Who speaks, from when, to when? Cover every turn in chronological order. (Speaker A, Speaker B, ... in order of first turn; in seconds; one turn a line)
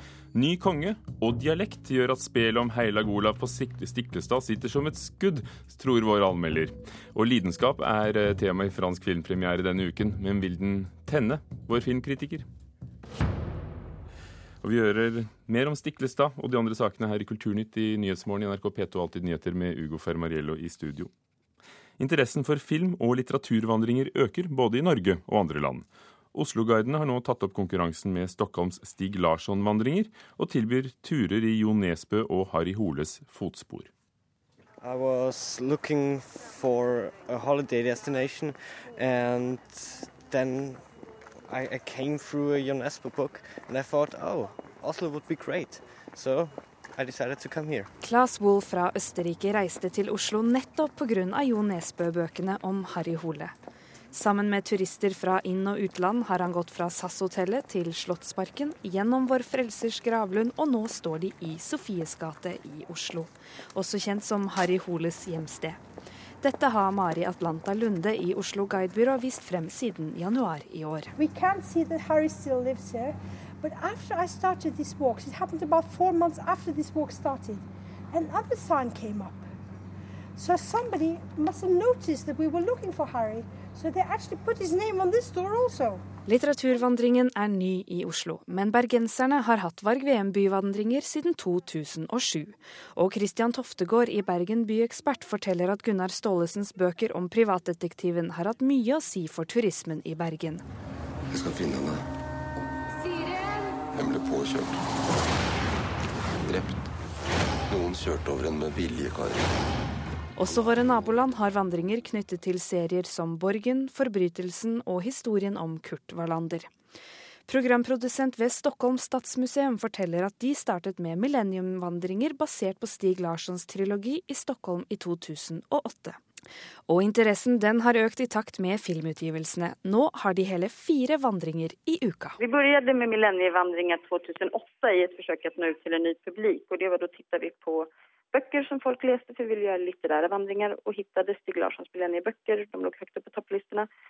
Speaker A: 0.3-12.4
Speaker A: 14.6-21.1
Speaker A: 22.0-33.9
Speaker B: 34.8-40.9
Speaker B: 41.5-47.9
Speaker C: 48.0-53.5
Speaker C: 54.1-65.8
Speaker C: 66.4-71.1
Speaker D: 71.2-79.5
Speaker D: 80.4-86.0
Speaker C: 86.2-100.6
Speaker E: 101.3-102.0
Speaker E: 103.9-104.8
Speaker E: 106.4-106.8
Speaker E: 107.7-109.5
Speaker C: 110.4-116.7
Speaker E: 110.5-110.9
Speaker C: 117.5-126.2
Speaker C: 126.9-132.4
Speaker F: 132.4-143.9